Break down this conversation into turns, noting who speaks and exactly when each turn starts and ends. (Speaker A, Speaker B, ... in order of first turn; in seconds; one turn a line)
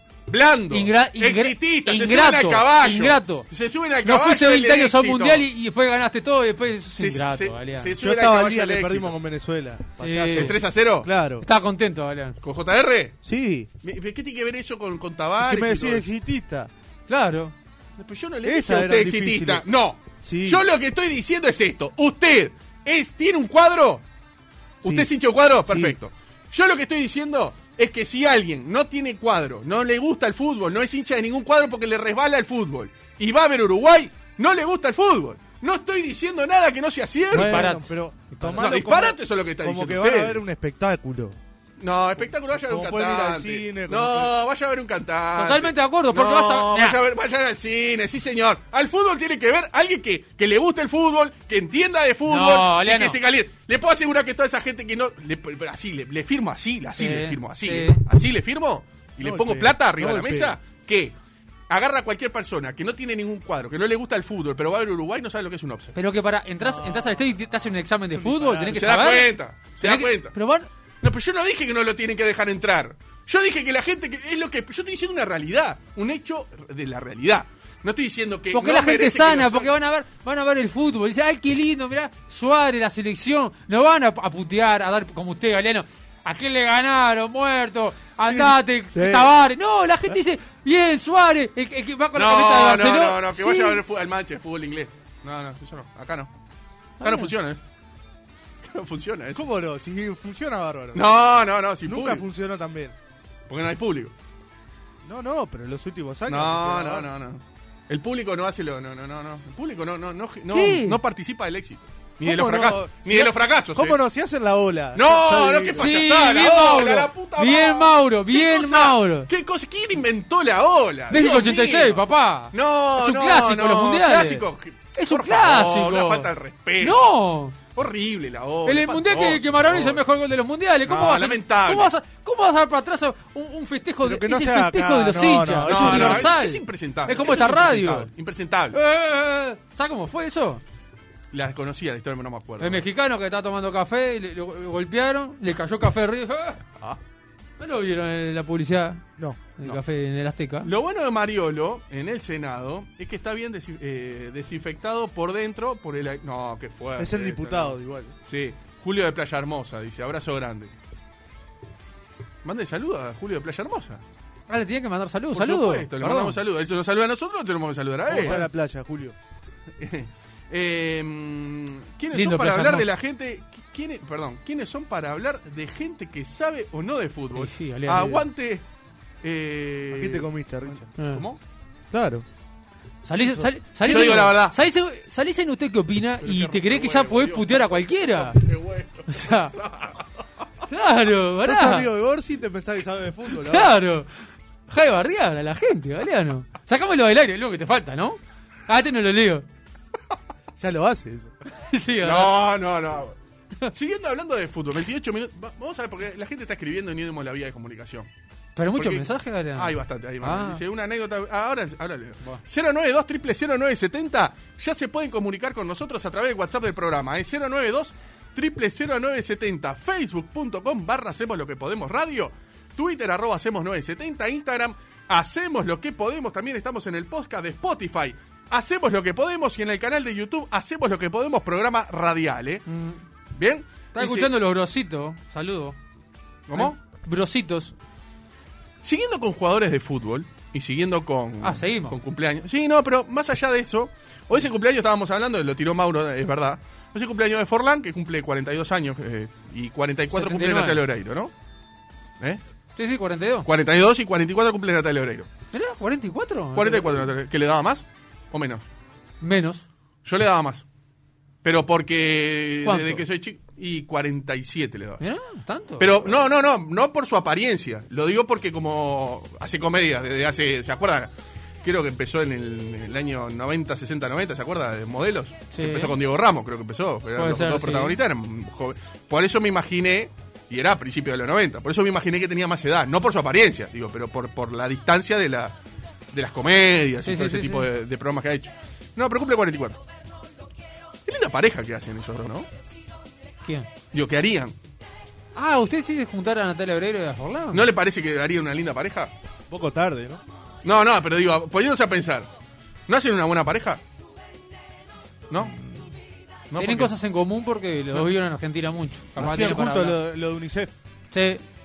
Speaker A: 0.3-5.5
Speaker B: 0.7-3.5
Speaker B: 4.0-7.9
Speaker A: 7.0-9.1
Speaker C: 8.0-11.5
Speaker B: 10.0-10.6
Speaker A: 10.3-11.1
Speaker B: 11.4-12.4
Speaker A: 12.4-13.2
Speaker C: 13.2-13.7
Speaker A: 13.8-16.1
Speaker C: 15.4-16.7
Speaker B: 17.1-17.5
Speaker A: 18.0-24.0
Speaker C: 18.4-19.6
Speaker C: 20.2-20.6
Speaker C: 24.8-25.1
Speaker A: 24.8-37.7
Speaker C: 25.7-26.0
Speaker C: 37.3-41.4
Speaker B: 37.3-38.8
Speaker A: 38.5-40.4
Speaker A: 41.8-61.1
Speaker C: 42.6-44.3
Speaker B: 45.4-47.0
Speaker B: 52.3-53.2
Speaker B: 57.0-58.0
Speaker C: 59.2-60.6
Speaker A: 61.7-66.0
Speaker B: 66.0-70.7
Speaker C: 66.6-67.2
Speaker C: 68.1-69.0
Speaker A: 68.7-70.3
Speaker A: 71.0-79.7
Speaker B: 78.5-93.8
Speaker C: 88.2-89.3
Speaker A: 92.2-96.3
Speaker B: 97.0-97.3
Speaker A: 97.0-97.6
Speaker A: 98.6-99.4
Speaker C: 99.3-101.1
Speaker A: 100.9-102.2
Speaker C: 101.9-102.9
Speaker A: 103.5-104.1
Speaker C: 105.0-107.1
Speaker A: 106.3-114.0
Speaker B: 110.5-111.0
Speaker C: 112.2-115.9
Speaker A: 115.0-122.0
Speaker B: 115.8-119.3
Speaker B: 121.1-127.6
Speaker A: 122.5-127.0
Speaker A: 127.7-130.0
Speaker B: 128.6-138.1
Speaker A: 130.9-131.9
Speaker C: 134.0-136.3
Speaker A: 135.7-138.8
Speaker B: 138.7-140.6
Speaker A: 141.3-142.8
Speaker B: 142.6-146.6
Speaker B: 147.6-149.0
Speaker C: 149.2-149.4
Speaker B: 149.6-150.7
Speaker A: 150.6-160.7
Speaker C: 157.0-158.1
Speaker A: 162.4-164.0
Speaker B: 164.5-166.4
Speaker A: 165.3-168.4
Speaker C: 168.1-169.2
Speaker A: 169.8-178.6
Speaker B: 172.1-172.9
Speaker B: 177.3-178.2
Speaker A: 179.2-181.4
Speaker C: 179.9-180.9
Speaker B: 181.0-181.2
Speaker C: 181.9-182.2
Speaker B: 183.0-188.4
Speaker C: 183.2-184.2
Speaker A: 183.8-184.6
Speaker A: 186.2-190.2
Speaker B: 189.1-189.6
Speaker B: 190.7-191.9
Speaker C: 191.4-193.7
Speaker B: 193.3-199.5
Speaker C: 200.6-201.3
Speaker B: 201.6-202.3
Speaker A: 202.0-203.2
Speaker A: 203.7-208.1
Speaker B: 208.6-210.6
Speaker A: 208.8-232.6
Speaker B: 232.7-233.0
Speaker A: 233.4-234.3
Speaker B: 233.9-235.8
Speaker A: 236.5-236.8
Speaker B: 236.5-237.7
Speaker A: 238.8-251.3
Speaker B: 241.4-242.0
Speaker B: 250.1-250.8
Speaker B: 252.8-253.5
Speaker A: 253.4-255.3
Speaker B: 255.5-257.0
Speaker A: 256.6-258.6
Speaker B: 259.2-259.6
Speaker A: 260.1-260.6
Speaker A: 261.4-265.0
Speaker B: 262.6-263.0
Speaker B: 265.0-266.1
Speaker A: 265.8-271.1
Speaker A: 271.6-285.6
Speaker B: 275.5-276.0
Speaker B: 277.1-278.0
Speaker A: 286.1-289.8
Speaker B: 287.0-287.7
Speaker A: 291.1-292.5
Speaker B: 293.4-293.7
Speaker A: 293.9-294.6
Speaker B: 295.4-297.6
Speaker A: 297.5-299.1
Speaker C: 299.5-300.2
Speaker A: 300.6-302.3
Speaker A: 302.9-303.8
Speaker B: 305.4-305.8
Speaker A: 306.5-306.9
Speaker B: 306.6-310.0
Speaker A: 309.1-309.6
Speaker C: 309.2-310.7
Speaker B: 311.1-311.4